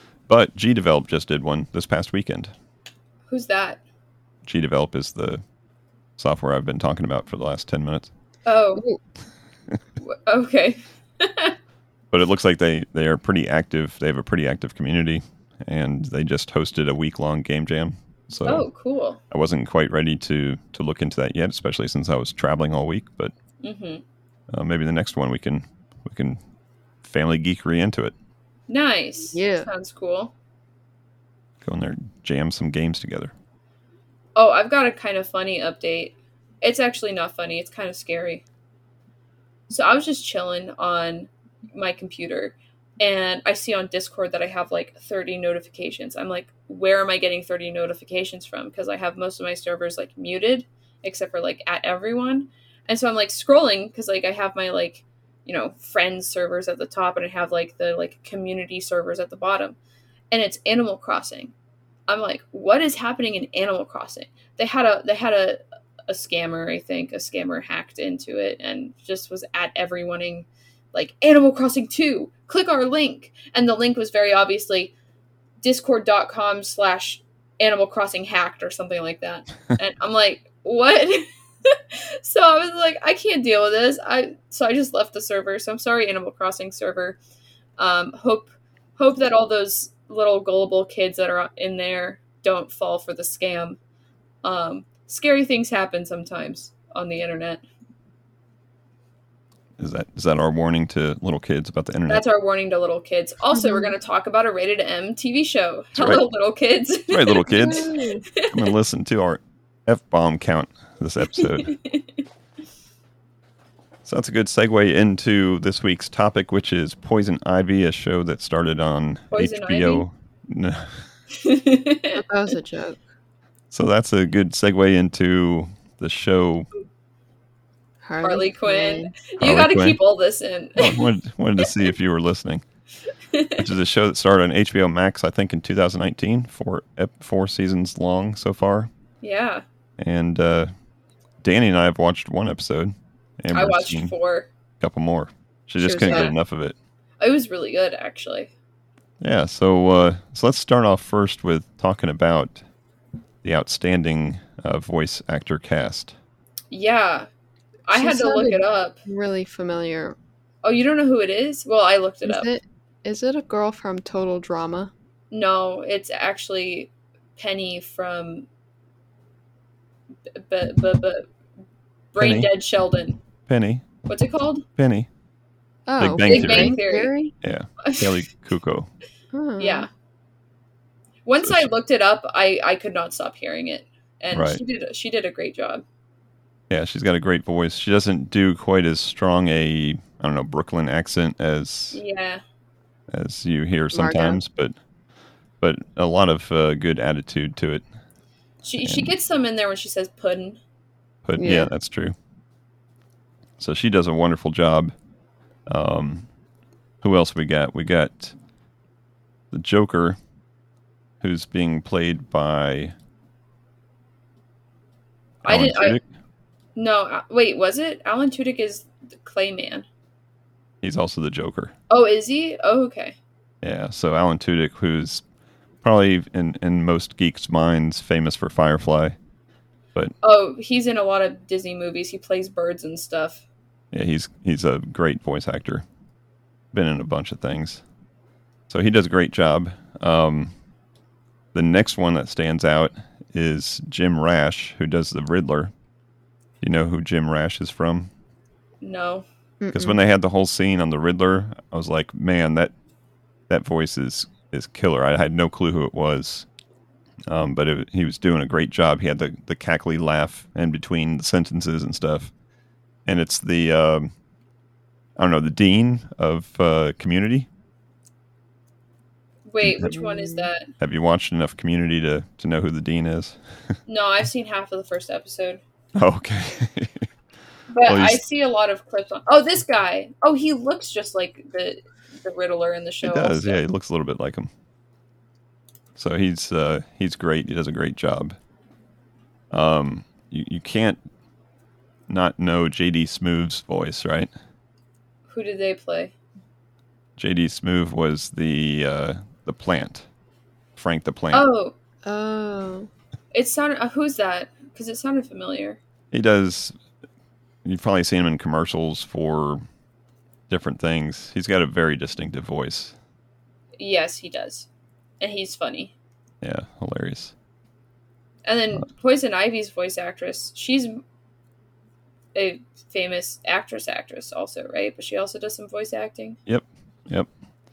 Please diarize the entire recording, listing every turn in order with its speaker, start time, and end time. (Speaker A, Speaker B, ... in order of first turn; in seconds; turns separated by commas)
Speaker A: 0.3-2.5, Speaker B: 3.3-3.8, Speaker A: 4.5-5.4, Speaker A: 6.2-8.1, Speaker B: 8.4-8.8, Speaker B: 10.0-11.6, Speaker A: 12.1-18.7, Speaker B: 18.5-19.2, Speaker A: 19.3-23.3, Speaker B: 23.6-24.0, Speaker A: 24.5-26.4, Speaker A: 27.0-28.1, Speaker B: 28.7-30.3, Speaker C: 29.3-29.7, Speaker A: 31.6-33.3, Speaker B: 34.4-38.4, Speaker B: 39.7-59.8, Speaker B: 60.3-61.5, Speaker B: 62.1-74.9, Speaker B: 75.6-87.2, Speaker B: 87.8-93.8, Speaker B: 94.4-97.6, Speaker A: 99.8-102.2, Speaker B: 102.1-108.7, Speaker C: 103.5-104.0, Speaker A: 106.0-106.2, Speaker A: 107.1-111.7, Speaker C: 107.5-108.3, Speaker B: 111.3-112.2, Speaker A: 114.0-120.9, Speaker B: 119.3-120.1, Speaker B: 121.3-122.2, Speaker C: 122.2-123.0, Speaker A: 123.7-126.7, Speaker C: 128.0-129.2, Speaker B: 128.2-131.1, Speaker A: 129.4-130.0, Speaker A: 130.8-132.6, Speaker B: 133.3-133.7, Speaker A: 133.6-138.9, Speaker B: 139.2-139.7, Speaker A: 140.0-140.7, Speaker A: 141.4-144.1, Speaker B: 143.5-144.5, Speaker A: 144.8-146.8, Speaker C: 145.8-146.3, Speaker B: 146.0-146.3, Speaker B: 147.2-148.5, Speaker A: 149.2-152.6, Speaker A: 153.4-156.1, Speaker B: 156.7-157.3, Speaker B: 157.9-159.0, Speaker C: 157.9-160.2, Speaker B: 160.6-162.5, Speaker C: 162.2-164.9, Speaker B: 165.3-168.5, Speaker B: 170.3-171.3, Speaker B: 172.1-173.2, Speaker A: 172.2-172.5, Speaker A: 173.5-173.9, Speaker B: 174.1-174.6, Speaker A: 174.8-175.1, Speaker C: 175.9-177.3, Speaker A: 176.0-176.8, Speaker B: 176.2-177.1, Speaker A: 177.4-178.9, Speaker B: 177.8-178.1, Speaker C: 179.3-179.9, Speaker B: 179.6-179.9, Speaker B: 181.3-185.8, Speaker A: 184.3-184.6, Speaker A: 186.7-192.0, Speaker B: 191.9-192.4, Speaker A: 193.1-194.7, Speaker C: 193.9-194.4, Speaker A: 195.6-197.8, Speaker B: 198.6-200.6, Speaker A: 198.8-199.1, Speaker A: 201.2-202.2, Speaker C: 201.4-201.7, Speaker A: 203.6-204.9, Speaker A: 205.7-206.3, Speaker A: 207.0-208.3, Speaker A: 209.5-210.2, Speaker A: 211.2-212.9, Speaker B: 215.4-216.0, Speaker A: 215.4-216.0, Speaker B: 216.8-219.9, Speaker A: 220.8-221.7, Speaker B: 221.9-223.2, Speaker A: 223.6-225.2, Speaker A: 225.8-229.2, Speaker B: 230.2-233.4, Speaker A: 233.9-235.8, Speaker A: 236.7-237.8, Speaker A: 238.7-240.5, Speaker A: 241.5-245.7, Speaker A: 246.6-248.1, Speaker B: 248.8-249.3, Speaker C: 249.6-250.0, Speaker A: 249.7-252.7, Speaker A: 253.5-256.5, Speaker A: 257.3-262.3, Speaker A: 263.1-264.1, Speaker A: 265.2-267.5, Speaker B: 269.5-270.7, Speaker C: 269.8-270.5, Speaker A: 270.8-273.4, Speaker B: 273.9-275.6, Speaker A: 275.9-277.1, Speaker B: 277.7-283.6, Speaker A: 277.9-278.2, Speaker A: 283.0-284.5, Speaker A: 286.0-288.4, Speaker A: 289.5-291.0, Speaker A: 292.1-294.3, Speaker B: 295.3-296.1, Speaker A: 297.2-300.1, Speaker A: 300.8-301.5, Speaker B: 301.3-301.7, Speaker C: 302.0-302.9, Speaker B: 303.3-305.8, Speaker A: 306.1-306.7, Speaker A: 307.6-309.6, Speaker A: 310.5-312.9, Speaker B: 313.8-314.7, Speaker B: 315.2-315.9, Speaker A: 316.4-317.3, Speaker B: 318.5-321.0, Speaker B: 322.4-326.4, Speaker A: 326.5-327.3